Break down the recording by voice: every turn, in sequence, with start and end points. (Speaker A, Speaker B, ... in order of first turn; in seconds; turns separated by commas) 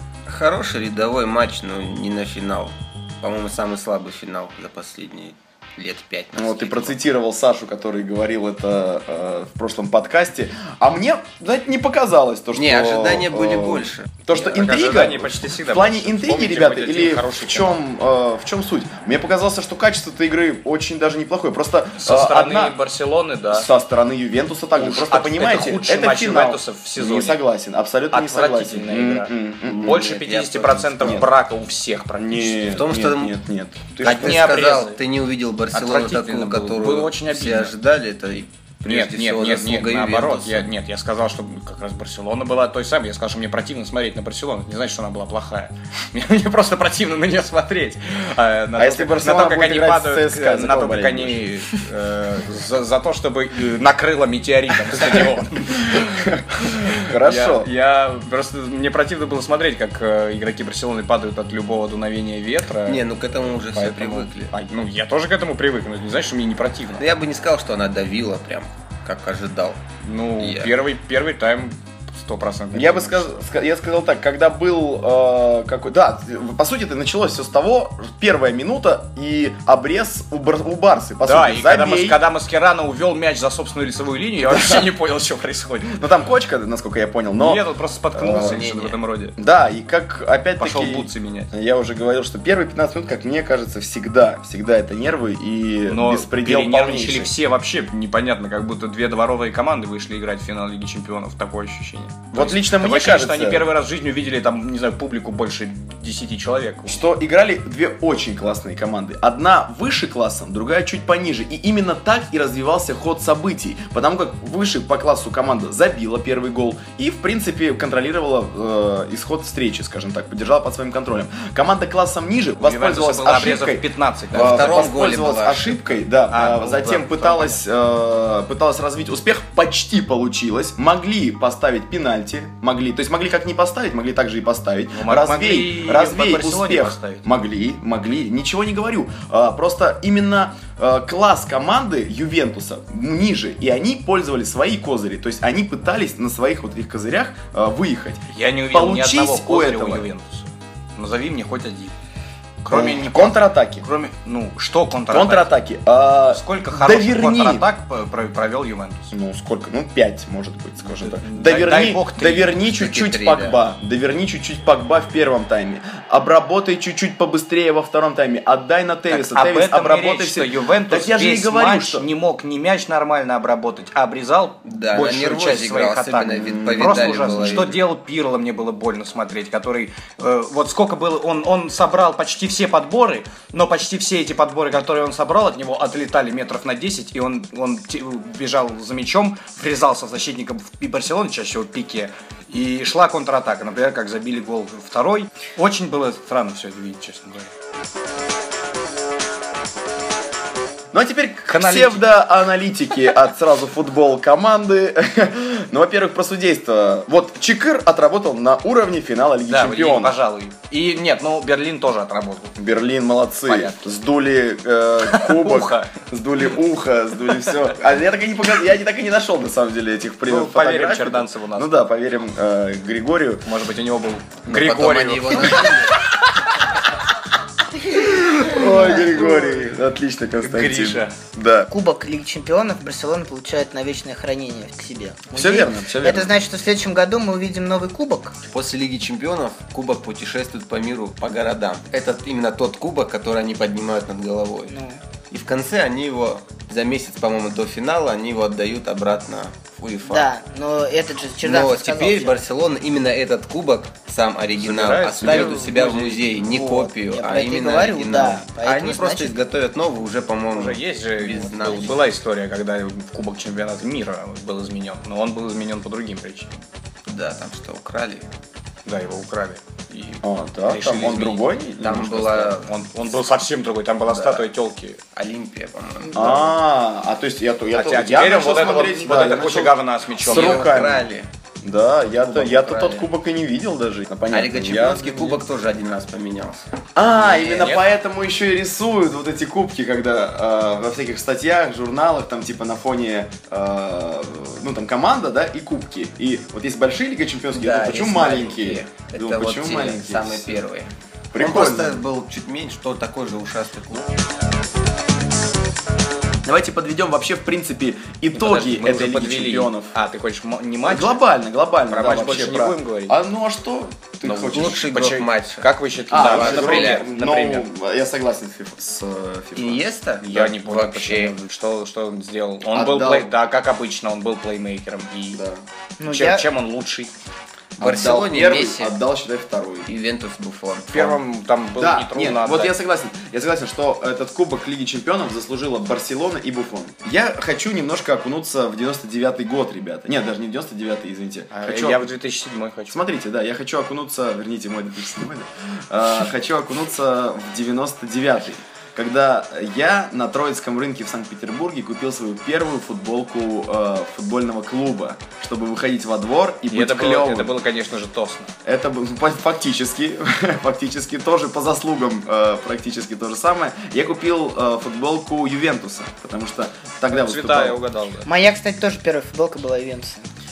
Speaker A: 0.3-7.0, Speaker B: 6.3-22.8, Speaker A: 12.5-14.1, Speaker C: 14.3-17.8, Speaker C: 22.0-23.7, Speaker B: 23.5-30.0, Speaker C: 24.8-27.4, Speaker C: 28.1-32.9, Speaker A: 29.6-31.3, Speaker B: 31.0-31.3, Speaker B: 32.2-34.3, Speaker A: 32.7-33.3, Speaker A: 33.9-40.7, Speaker C: 34.0-35.0, Speaker C: 35.7-37.7, Speaker C: 38.8-63.0, Speaker B: 48.8-51.4, Speaker B: 55.0-55.2, Speaker B: 55.8-57.7, Speaker A: 62.9-64.5, Speaker C: 63.6-67.0, Speaker A: 67.0-69.8, Speaker C: 70.0-73.4, Speaker A: 70.4-70.7, Speaker B: 72.7-82.2, Speaker C: 81.2-86.0, Speaker B: 84.4-84.9, Speaker B: 85.9-87.6, Speaker C: 87.4-89.3, Speaker B: 88.1-88.6, Speaker A: 88.4-89.0, Speaker B: 89.4-97.3, Speaker C: 90.6-91.5, Speaker C: 95.9-107.0, Speaker B: 102.3-103.7, Speaker B: 106.9-150.1, Speaker C: 122.6-124.9, Speaker A: 124.3-125.8, Speaker C: 126.3-127.6, Speaker C: 134.9-137.2, Speaker C: 148.3-151.9, Speaker C: 152.6-155.5, Speaker B: 152.7-153.9, Speaker B: 155.1-157.6, Speaker C: 156.3-159.1, Speaker B: 159.1-172.1, Speaker C: 160.8-162.6, Speaker A: 162.7-163.6, Speaker C: 169.1-197.5, Speaker A: 174.6-177.8, Speaker B: 176.4-177.0, Speaker B: 200.9-210.2, Speaker C: 201.5-202.1, Speaker C: 209.5-212.6, Speaker B: 212.6-223.4, Speaker C: 213.5-213.8, Speaker C: 215.1-215.9, Speaker C: 220.2-221.8, Speaker C: 223.4-226.8, Speaker A: 224.4-225.9, Speaker B: 227.9-231.7, Speaker D: 228.3-229.7, Speaker C: 230.4-231.1, Speaker D: 231.7-238.3, Speaker B: 235.3-236.3, Speaker A: 238.4-244.8, Speaker D: 244.7-245.0, Speaker A: 245.3-250.3, Speaker D: 250.0-252.4, Speaker A: 251.4-262.0, Speaker C: 254.6-256.6, Speaker D: 256.5-259.4, Speaker C: 260.5-266.6, Speaker A: 267.1-268.3, Speaker C: 268.9-275.0, Speaker B: 270.2-272.1, Speaker A: 271.8-272.7, Speaker A: 274.1-274.4, Speaker A: 275.1-276.5, Speaker B: 276.1-281.1, Speaker C: 277.7-280.7, Speaker D: 278.4-279.5, Speaker A: 280.2-281.3, Speaker B: 281.6-285.4, Speaker A: 282.2-283.1, Speaker A: 284.3-287.6, Speaker B: 286.9-300.6, Speaker C: 287.4-287.8, Speaker A: 297.5-304.1, Speaker B: 301.3-302.0, Speaker B: 306.4-309.9, Speaker C: 308.3-311.2, Speaker B: 310.8-314.8, Speaker C: 311.9-313.1, Speaker A: 314.2-317.1, Speaker C: 314.4-317.7, Speaker B: 316.1-319.8, Speaker A: 319.5-321.4, Speaker C: 320.2-325.4, Speaker B: 322.7-323.3, Speaker B: 325.3-325.6, Speaker D: 326.0-326.5, Speaker C: 326.0-327.1, Speaker A: 327.8-328.9, Speaker B: 327.8-329.9, Speaker A: 329.8-331.2, Speaker C: 330.9-332.7, Speaker B: 331.8-342.1, Speaker C: 341.5-343.0, Speaker B: 342.9-357.5, Speaker C: 356.7-358.5, Speaker B: 358.6-367.8, Speaker C: 367.1-368.3, Speaker D: 368.2-370.3